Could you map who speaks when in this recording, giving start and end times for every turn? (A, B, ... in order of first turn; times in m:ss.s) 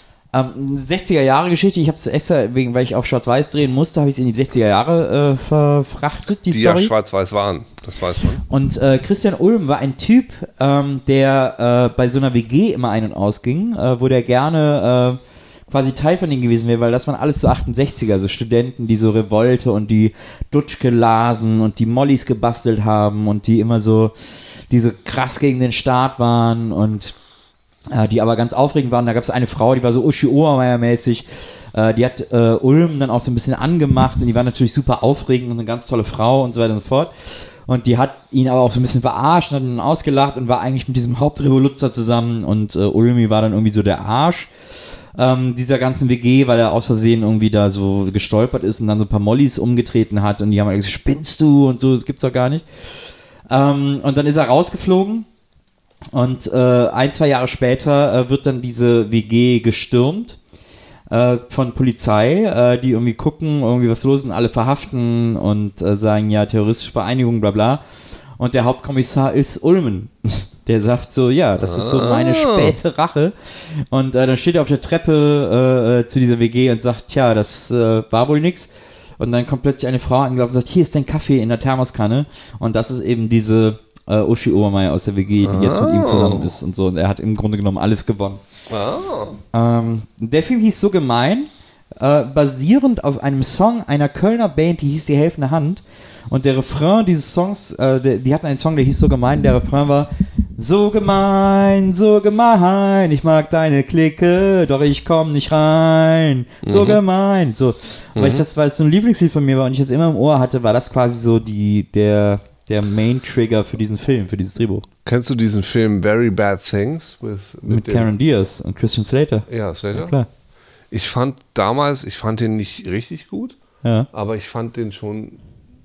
0:00.3-0:06.9 A
0:06.5-0:08.4 B
0:08.5-0:27.2 A
0:27.9-0:44.5 A
0:45.1-0:55.3 A
0:56.1-1:00.4 A
1:01.1-1:07.8 A
1:08.4-1:28.4 A
1:11.6-1:12.8 B
1:25.4-1:26.5 B
1:28.7-1:29.4 B
1:29.5-1:54.8 A
1:46.6-1:47.0 B
1:48.2-1:48.4 B
1:55.0-1:58.1 B
1:57.7-2:00.3 A
1:59.5-2:00.1 B
2:00.9-2:03.6 B
2:03.8-2:04.1 A
2:04.1-2:05.4 B